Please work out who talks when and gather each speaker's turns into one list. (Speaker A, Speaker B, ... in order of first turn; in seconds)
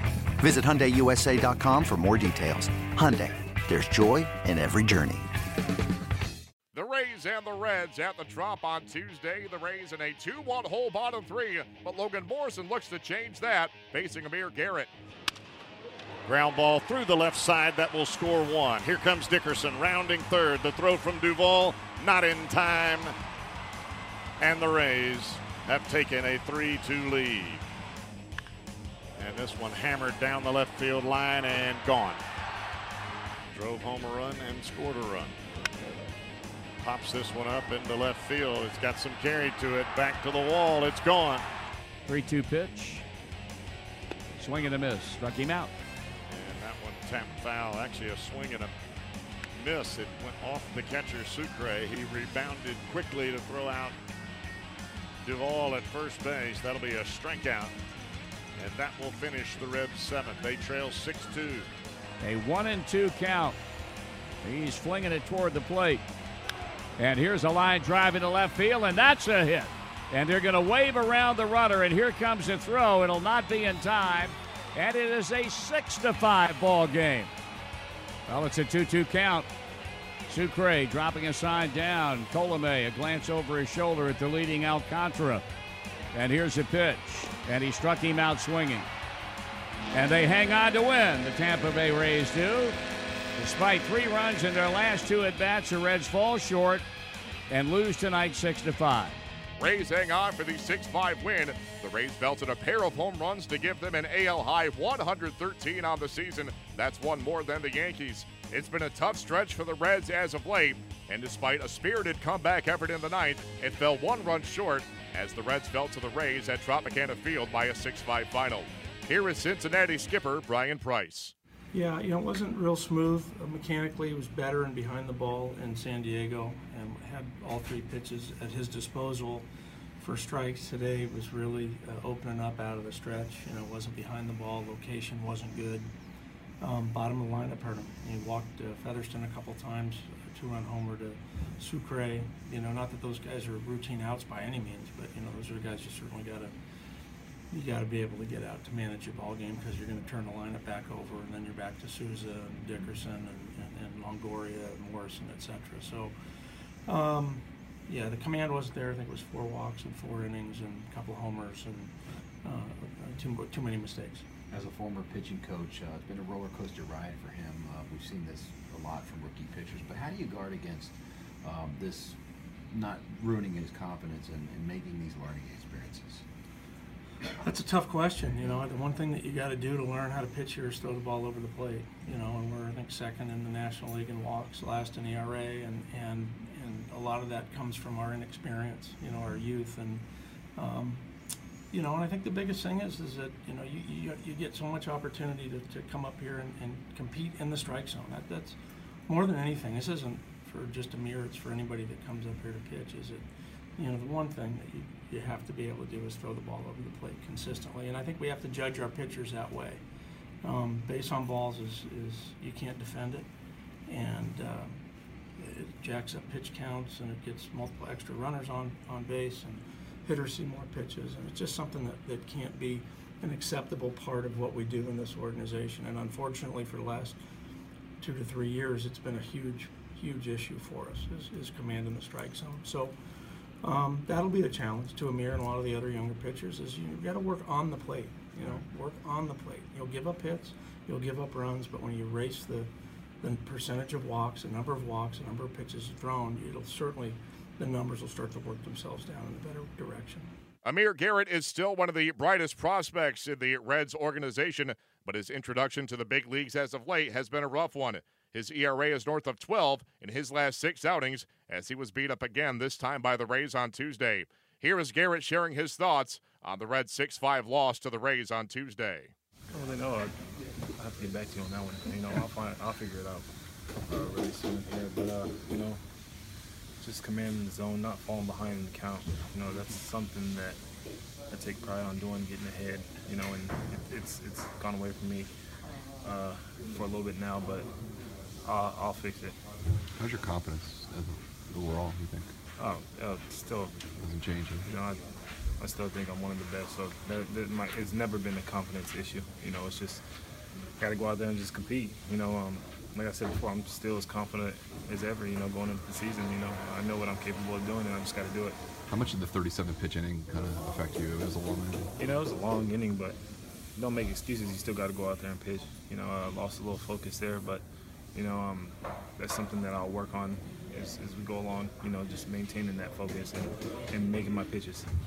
Speaker A: 0.4-5.3
Speaker B: 6.7-14.9, 99.6-121.3, 250.6-269.1
Speaker C: 16.3-23.1, 24.4-27.6, 29.2-32.2, 33.5-35.8, 36.8-41.4, 46.3-48.7, 49.6-53.9, 55.2-57.7, 58.6-61.6
Speaker D: 42.0-43.0, 44.4-45.7, 62.2-63.6, 64.4-66.0, 67.0-77.3, 78.3-79.5, 80.3-85.4, 86.1-88.9, 89.9-92.8, 93.4-96.8, 97.5-99.2
Speaker E: 121.7-135.9, 136.6-146.5, 147.5-156.1, 156.8-164.2, 177.4-190.0, 190.6-191.0, 191.7-203.2, 203.8-209.8, 210.4-213.3, 213.9-214.8, 215.4-227.2, 228.0-232.9, 233.6-242.7, 243.2-250.3
Speaker F: 164.5-172.2, 172.7-176.2
Speaker G: 269.5-270.1, 270.8-273.3, 273.9-275.8, 276.8-280.6, 281.3-285.3, 286.0-287.7, 288.4-289.4, 292.6-293.7, 294.6-295.0, 295.6-300.0, 300.8-308.6, 312.0-313.2, 313.8-324.9
Speaker H: 289.9-292.3, 294.0-294.7, 308.9-311.9